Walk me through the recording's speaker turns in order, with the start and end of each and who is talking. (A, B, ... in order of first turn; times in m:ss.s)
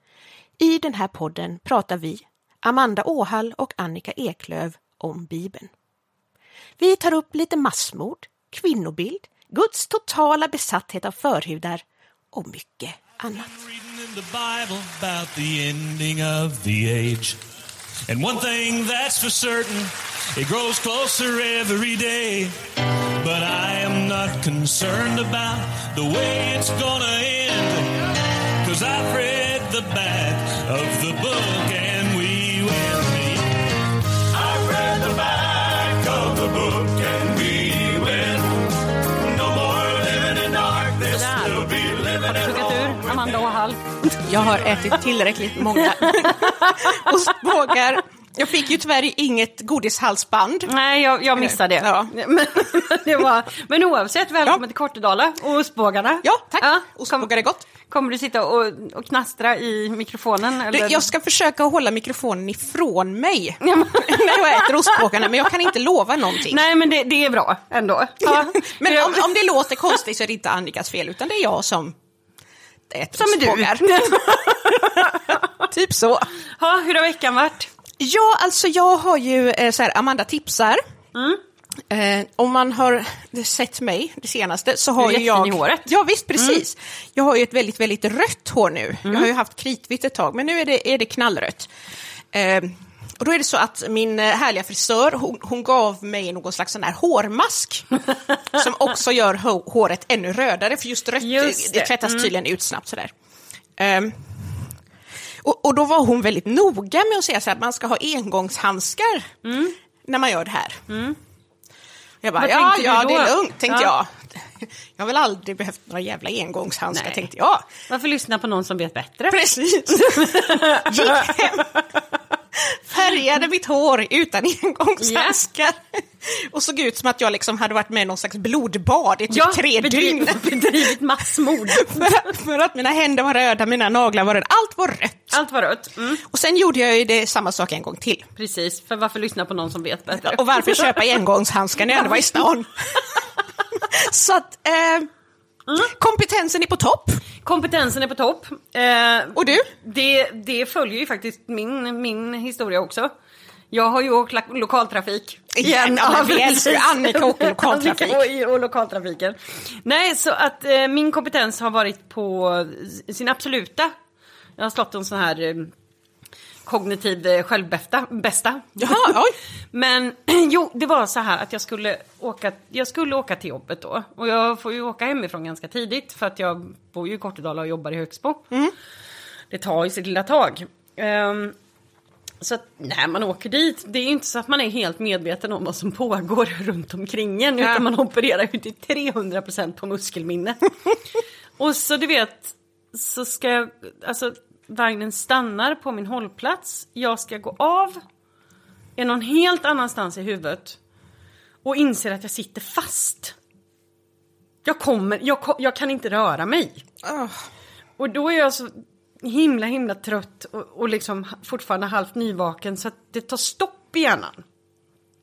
0:00.6-0:05.7 A
0:06.8-0:13.5 A
0:13.7-0:17.4 B
0:18.1-0:22.6 B
0:23.2-0:33.6 B
0:34.2-0:43.3 B
0:41.1-0:44.3 C
0:44.3-0:50.7 A
0:45.6-0:47.5 C
0:50.7-0:57.3 C
0:51.4-0:52.1 A
0:56.2-0:57.6 A
0:57.8-1:01.1 C
1:00.7-1:06.6 A
1:03.6-1:05.5 C
1:06.3-1:09.3 C
1:08.2-1:11.9 A
1:12.9-1:15.2 A
1:13.2-1:15.7 C
1:15.7-1:16.3 A
1:16.6-1:17.7 C
1:18.0-1:20.8 A
1:21.2-1:21.4 C
1:21.9-1:31.7 A
1:25.0-1:26.6 C
1:32.3-1:37.9 A
1:38.5-1:43.1 A
1:41.2-1:42.3 C
1:43.8-1:44.8 A
1:45.4-1:49.3 A
1:49.4-1:49.8 C
1:50.0-1:50.8 A
1:50.9-1:51.2 C
1:52.2-1:57.7 A
1:52.4-1:53.9 C
1:56.9-1:57.2 C
1:57.9-2:02.0 C
1:59.3-2:01.7 A
2:02.5-2:11.0 A
2:05.0-2:05.4 C
2:09.3-2:12.3 C
2:11.6-2:15.4 A
2:15.3-2:16.2 C
2:16.2-2:18.2 A
2:18.4-2:21.1 C
2:20.1-2:25.1 A
2:21.9-2:22.4 C
2:25.8-2:27.2 A
2:27.4-2:33.1 C
2:29.3-2:29.7 A
2:33.7-2:43.9 C
2:35.5-2:38.2 A
2:44.6-2:45.7 C
2:46.7-2:49.2 C
2:48.8-2:49.4 A
2:49.7-2:58.5 C
2:59.5-3:01.5 C
3:02.4-3:10.6 C
3:11.6-3:18.0 C
3:19.0-3:20.8 C
3:21.6-3:23.3 C
3:24.6-3:26.8 C
3:27.0-3:27.4 A
3:28.0-3:34.4 C